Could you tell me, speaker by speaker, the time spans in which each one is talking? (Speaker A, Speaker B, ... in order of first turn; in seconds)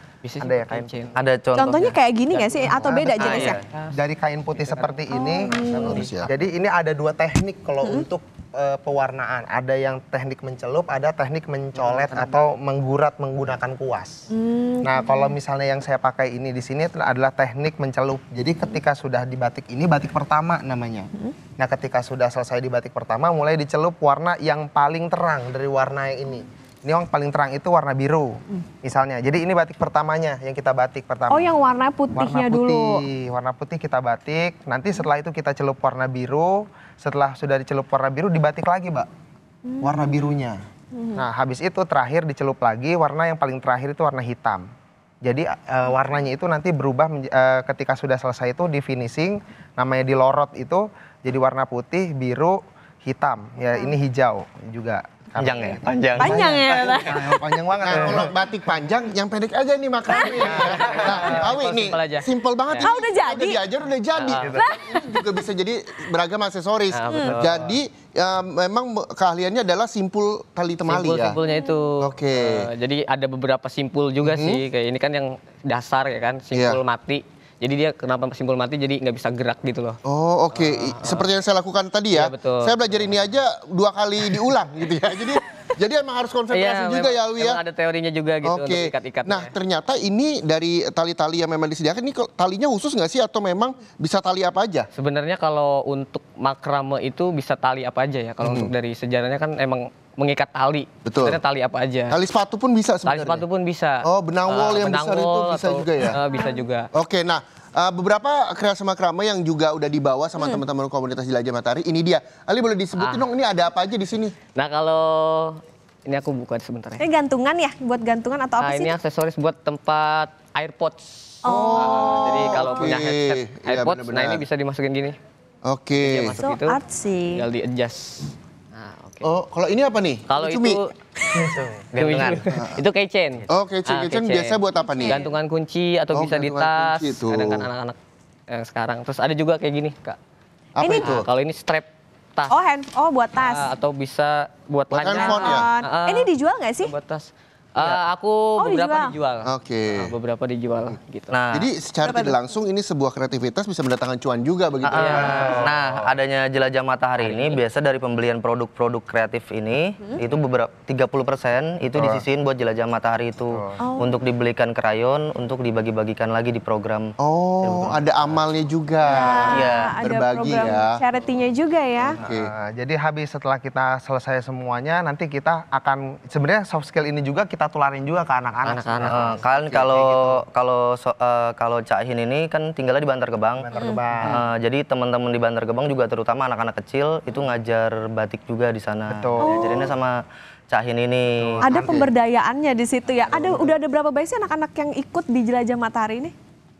Speaker A: 0.2-1.1, 2.3-4.0, 4.5-5.0, 5.7-6.3, 60.6-62.9, 64.1-64.5, 66.9-67.3, 70.8-80.0, 80.5-81.3, 82.1-83.1, 86.5-89.5, 94.9-102.2, 103.0-106.9, 113.0-113.3, 114.5-117.0, 118.6-125.2, 126.0-126.8, 127.3-129.3, 130.3-130.9, 131.9-138.0, 138.5-140.2, 141.0-142.6, 143.3-146.3, 146.8-151.3, 154.9-155.7, 157.2-157.6, 178.6-179.2
Speaker B: 0.4-1.1, 2.6-14.3, 14.8-31.5, 32.1-39.1, 39.8-40.6, 41.1-44.7, 45.2-58.4, 60.4-61.3, 64.4-64.7, 67.3-67.8, 131.3-131.8, 155.1-156.1, 163.5-163.8, 172.2-180.4, 183.6-184.5, 189.1-189.8, 191.4-192.1, 193.3-193.7
Speaker C: 1.1-2.0, 3.2-3.6, 55.4-56.4, 131.9-132.4, 151.3-151.7, 154.8-168.4, 169.5-169.9, 179.1-190.2, 190.7-191.7
Speaker D: 1.5-3.6, 5.1-6.1, 14.3-15.3, 31.3-33.0, 39.6-40.2, 40.9-41.2, 56.2-58.2, 60.1-60.6, 62.8-63.6, 64.4-65.2, 67.1-67.5, 71.5-71.8, 106.3-106.6, 117.0-118.9, 121.4-122.9, 126.4-127.5, 131.2-131.5, 134.8-135.2, 140.8-141.2, 142.5-143.7, 145.1-146.9, 148.6-149.2, 152.0-152.4, 163.8-164.1, 169.0-172.2, 183.7-184.1, 189.4-189.9, 191.6-196.3
Speaker E: 5.6-6.3, 57.8-71.4, 72.0-72.7, 74.2-74.6, 76.5-76.8, 80.0-87.6, 88.4-94.9, 98.4-98.7, 101.0-101.4, 102.1-103.4, 104.0-106.2, 106.9-114.3, 121.4-124.4, 125.6-126.3, 129.2-130.8, 132.5-132.8, 133.5-135.2, 136.1-137.7, 140.8-141.3, 144.9-145.7, 149.4-150.1, 151.5-155.7, 161.9-162.2, 167.2-171.0, 172.1-172.5